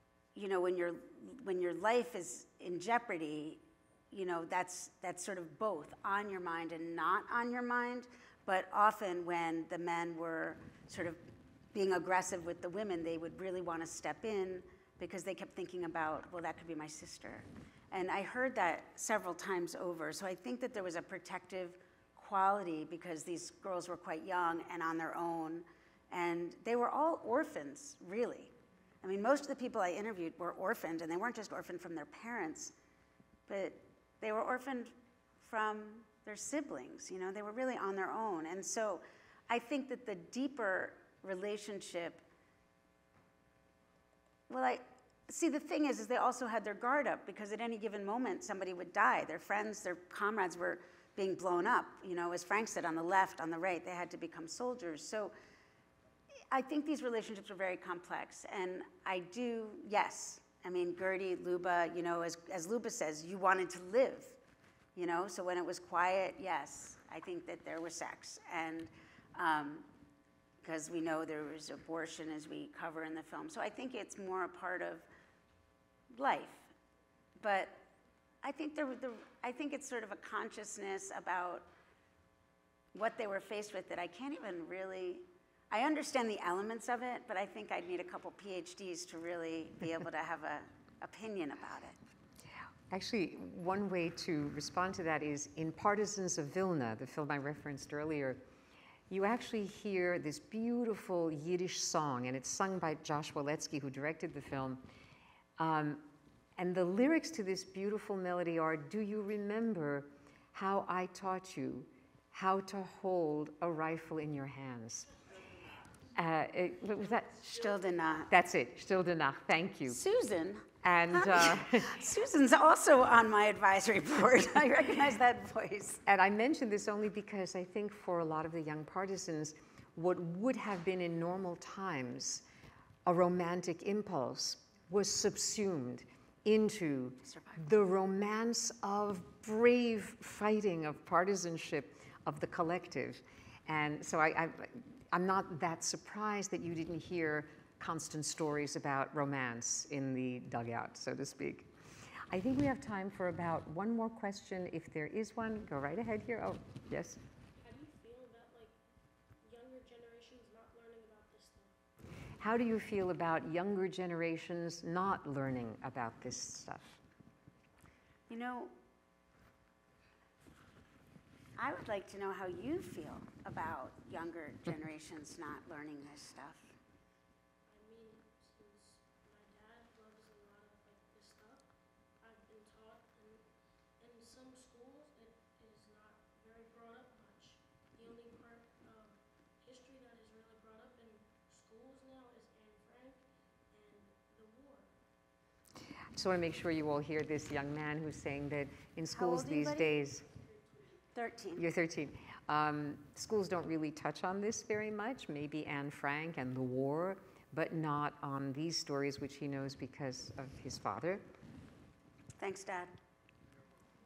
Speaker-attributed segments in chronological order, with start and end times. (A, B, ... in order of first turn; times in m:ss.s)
0:00.4-0:11.2 A
0:11.7-0:32.7 A
0:33.5-0:42.2 A
0:44.5-0:55.3 A
0:56.5-1:04.4 A
1:05.0-1:09.9 A
1:10.6-1:15.1 A
1:16.1-1:16.7 A
1:17.4-1:17.9 A
1:18.4-1:21.7 A
1:22.9-1:32.0 A
1:32.9-1:38.4 B
1:39.1-1:44.8 B
1:45.6-1:46.0 B
1:46.6-1:55.1 B
1:56.1-1:57.6 B
1:57.4-1:58.3 A
1:58.3-2:00.0 B
1:59.9-2:06.0 A
2:00.8-2:02.0 B
2:06.1-2:12.4 B
2:13.1-2:31.7 B
2:17.2-2:17.6 A
2:32.3-2:37.2 B
2:37.6-2:41.8 C
2:42.4-2:47.0 B
2:48.3-2:48.7 A
2:51.6-2:56.7 A
2:57.7-3:15.0 C
3:16.2-3:20.2 B
3:19.1-3:19.9 A
3:20.2-3:21.0 C
3:21.2-3:21.6 A
3:21.6-3:31.2 B
3:32.4-3:32.9 A